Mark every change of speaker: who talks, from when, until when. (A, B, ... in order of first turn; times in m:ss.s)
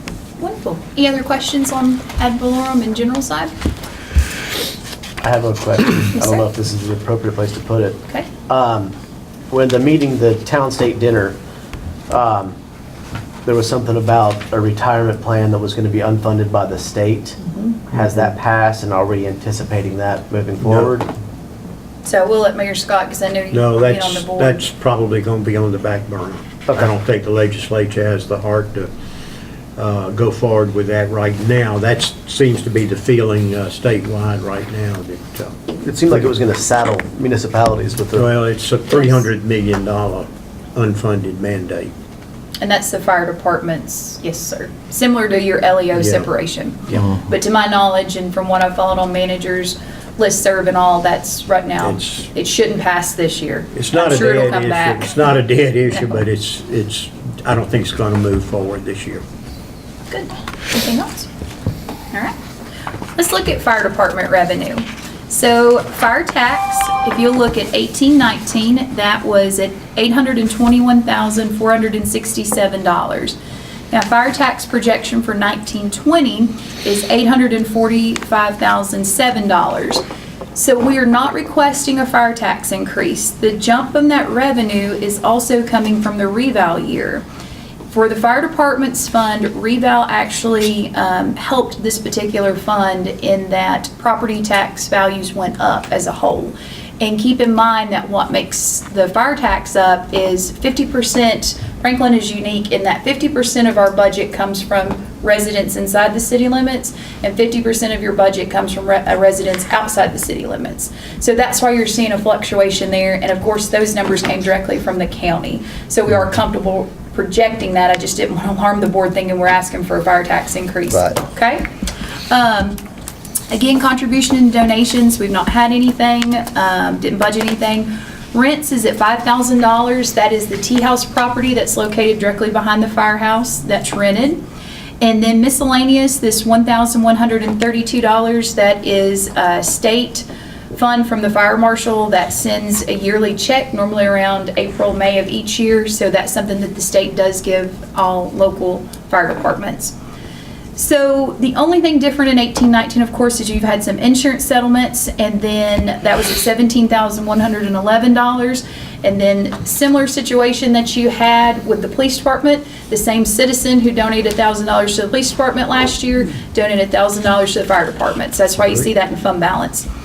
0:00.4-0:03.5 A
0:05.2-0:08.9 B
0:06.1-0:06.4 A
0:09.5-0:11.4 B
0:12.1-0:12.5 B
0:13.4-0:17.4 B
0:17.4-0:17.8 A
0:17.9-0:21.1 B
0:17.9-0:18.2 C
0:20.6-0:20.9 C
0:22.0-0:24.6 A
0:23.5-0:28.9 C
0:29.8-0:35.6 C
0:35.8-0:38.3 B
0:38.1-0:41.9 C
0:38.9-0:39.2 A
0:42.6-0:55.2 A
0:45.9-0:46.3 C
0:51.8-0:52.3 C
0:53.7-0:59.2 C
1:00.1-1:01.3 A
1:03.2-1:13.4 A
1:13.9-1:20.0 A
1:20.5-1:27.2 A
1:27.9-2:01.6 A
2:02.3-2:02.8 A
2:03.5-2:14.4 A
2:15.0-2:29.9 A
2:30.8-2:49.9 A